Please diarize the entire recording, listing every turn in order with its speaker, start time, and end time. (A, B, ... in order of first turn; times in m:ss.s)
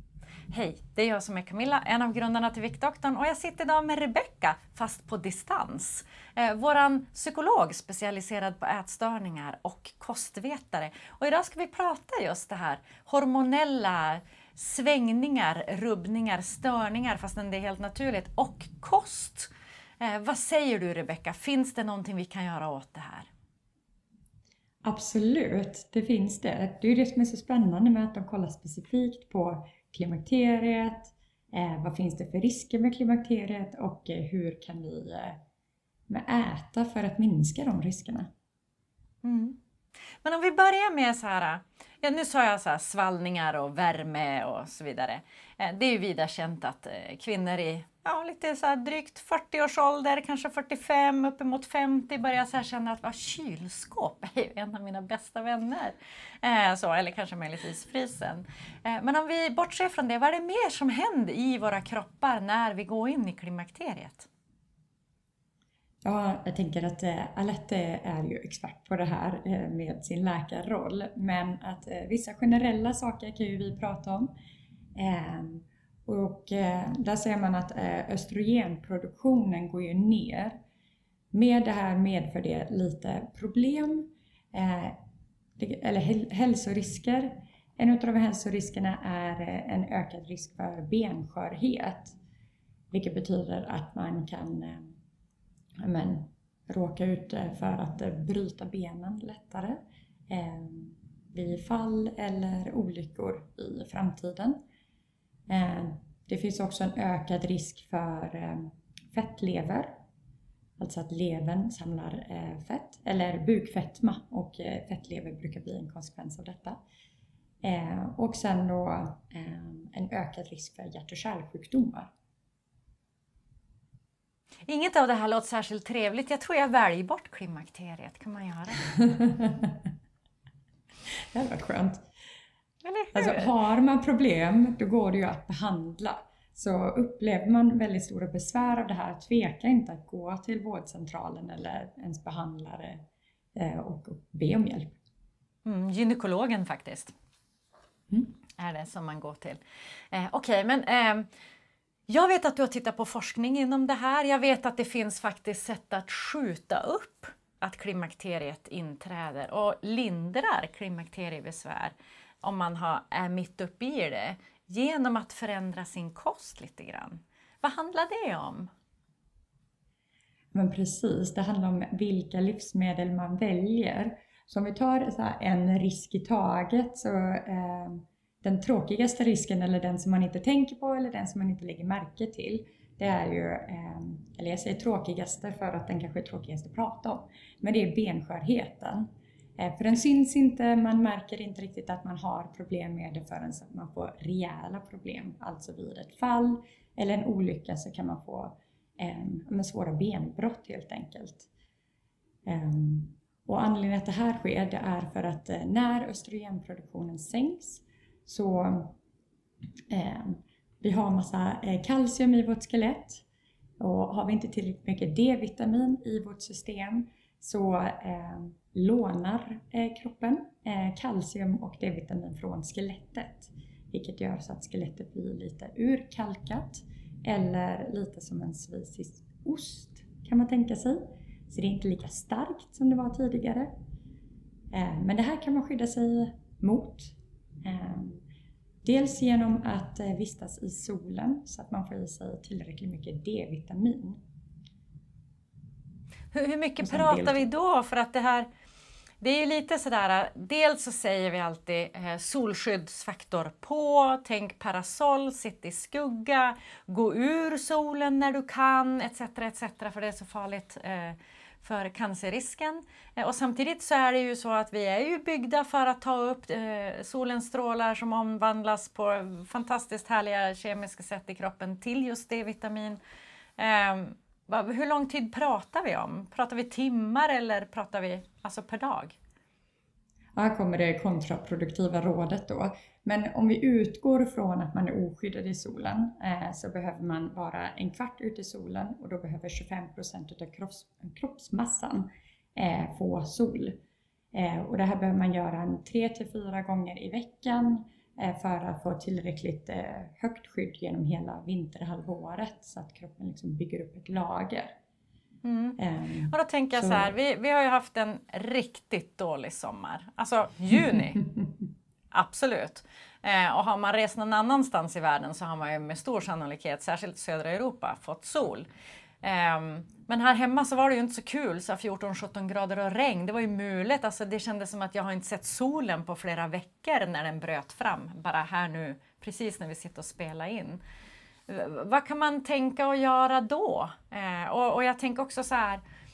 0:00.5-0:19.5 A
0:20.0-0:23.3 A
0:24.8-0:35.4 B
0:36.1-0:38.3 B
0:39.2-0:39.6 A
0:40.2-1:04.3 A
1:06.0-1:14.3 B
1:15.0-1:20.6 B
1:21.3-1:25.0 B
1:25.6-1:32.2 B
1:32.9-1:34.9 B
1:35.8-1:44.6 B
1:45.5-1:49.9 B
1:50.8-1:56.8 B
1:57.6-2:02.1 B
2:04.7-2:08.9 A
2:08.9-2:09.7 B
2:11.3-2:12.0 B
2:12.8-2:13.5 A
2:13.1-2:23.0 B
2:23.6-2:25.0 B
2:25.6-2:27.1 A
2:28.6-2:29.6 A
2:30.1-2:31.3 A
2:32.1-2:48.7 A
2:50.5-3:21.5 B
3:22.4-3:29.0 B
3:29.9-3:33.2 B
3:33.8-3:53.7 B
3:54.7-3:58.2 B
3:58.8-4:04.2 B
4:06.3-4:08.5 A
4:06.8-4:07.5 B
4:09.2-4:33.0 A
4:33.6-4:39.2 A
4:40.4-4:53.8 B
4:54.3-5:04.7 B
5:05.4-5:05.8 A
5:05.8-5:07.1 B
5:06.3-5:11.2 A
5:12.1-5:18.7 A
5:19.2-5:30.8 A
5:31.5-5:35.8 A